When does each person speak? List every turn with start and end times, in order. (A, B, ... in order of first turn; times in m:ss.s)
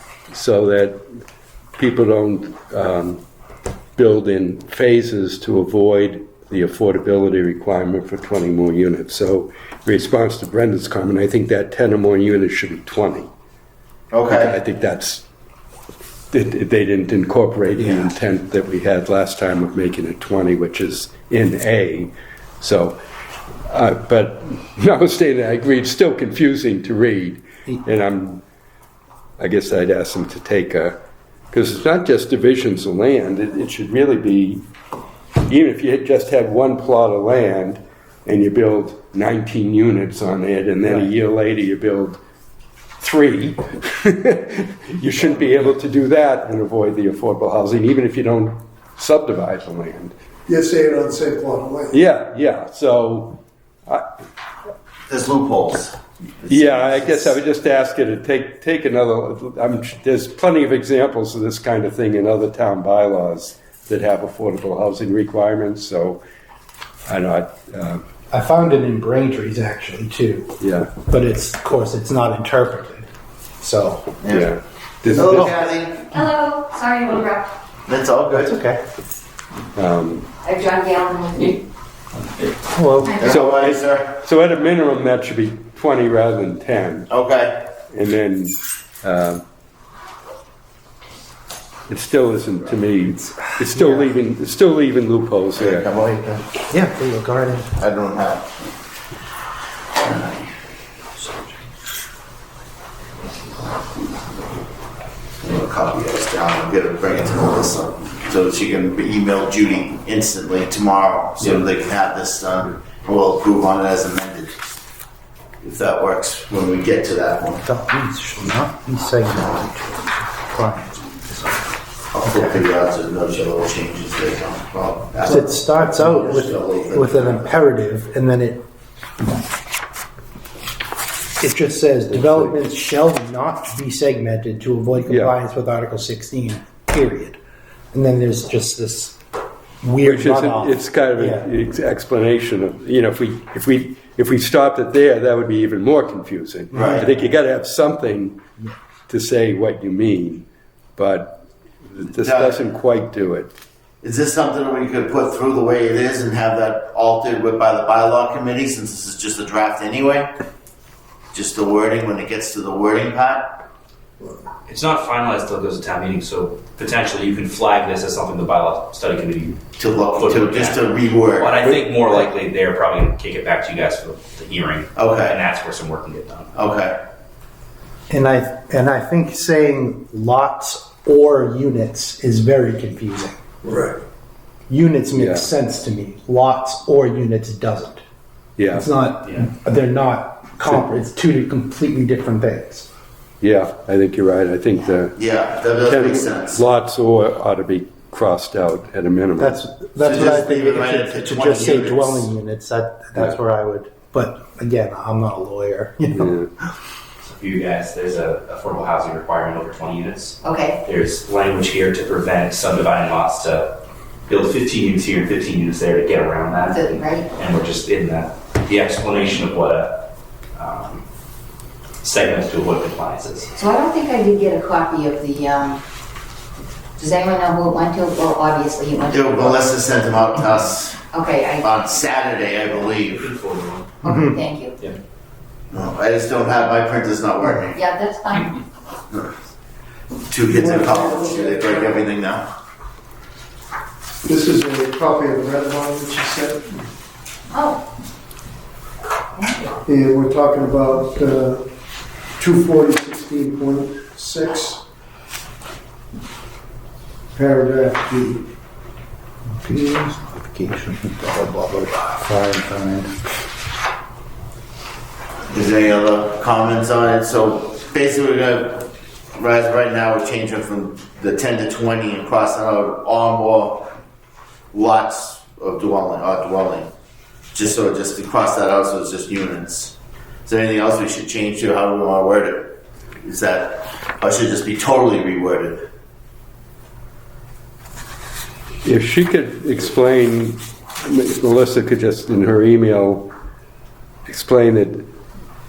0:00.3-0:01.0 A
0:01.8-0:03.2 A
0:04.0-0:13.3 A
0:14.1-0:14.5 B
0:14.3-0:15.2 A
0:16.3-0:23.0 A
0:17.8-0:18.1 B
0:23.7-0:28.4 A
0:29.4-0:31.0 A
0:31.5-0:34.6 A
0:35.4-0:42.2 A
0:43.0-0:50.1 A
0:50.5-0:52.0 C
0:51.9-0:54.0 A
0:55.1-0:57.1 B
0:56.5-1:06.2 A
1:07.0-1:08.0 A
1:08.3-1:10.5 D
1:10.6-1:11.0 A
1:11.0-1:13.1 D
1:13.6-1:14.2 D
1:14.2-1:14.5 B
1:14.3-1:15.6 A
1:15.1-1:15.5 D
1:15.1-1:16.1 B
1:16.1-1:17.5 E
1:17.9-1:18.5 B
1:18.3-1:18.8 D
1:19.8-1:20.2 A
1:20.4-1:21.6 E
1:22.7-1:23.2 D
1:23.0-1:23.3 E
1:23.2-1:24.1 B
1:23.2-1:27.1 A
1:27.1-1:27.6 B
1:27.9-1:29.4 A
1:31.9-1:35.9 A
1:33.7-1:34.0 D
1:35.6-1:36.5 B
1:36.7-1:37.8 D
1:37.8-1:38.5 B
1:40.0-1:40.4 B
1:45.4-1:54.5 B
1:55.6-1:57.6 B
1:57.6-2:01.7 D
2:02.1-2:07.4 B
2:02.2-2:02.6 D
2:05.2-2:08.6 D
2:11.4-2:17.4 D
2:12.1-2:12.6 A
2:15.1-2:15.3 A
2:17.9-2:19.2 D
2:19.8-2:21.5 D
2:20.0-2:28.4 A
2:26.7-2:27.1 D
2:26.7-2:27.1 B
2:29.1-2:33.5 A
2:32.2-2:32.6 B
2:34.0-2:40.3 B
2:41.3-2:43.5 B
2:44.7-2:56.6 F
2:49.8-2:51.7 B
2:55.0-2:55.4 B
2:56.5-2:57.0 B
2:58.1-3:03.4 D
3:03.6-3:03.9 C
3:04.7-3:08.0 D
3:05.2-3:05.5 A
3:08.6-3:08.9 A
3:08.7-3:12.9 D
3:13.4-3:15.2 A
3:15.2-3:16.6 B
3:15.8-3:19.6 A
3:19.4-3:26.6 D
3:20.0-3:22.3 B
3:26.1-3:26.4 A
3:27.2-3:41.0 F
3:30.4-3:30.8 E
3:36.7-3:37.3 E
3:42.0-3:43.5 F
3:43.6-3:45.8 E
3:47.0-3:49.7 E
3:49.1-3:51.0 B
3:51.1-3:51.8 E
3:51.6-3:53.3 B
3:52.8-3:53.9 F
3:54.0-3:54.8 E
3:54.0-3:54.4 D
3:55.7-3:57.8 B
3:57.7-3:58.6 E
4:00.3-4:02.4 B
4:00.5-4:01.7 C
4:04.2-4:06.8 C
4:07.5-4:07.8 E
4:09.4-4:09.7 E
4:09.8-4:11.7 C
4:12.4-4:14.8 C
4:17.3-4:18.5 C
4:19.6-4:23.2 D
4:25.5-4:33.9 B
4:34.7-4:36.9 B
4:37.5-4:45.9 B
4:48.8-4:53.3 A
4:54.3-4:55.1 A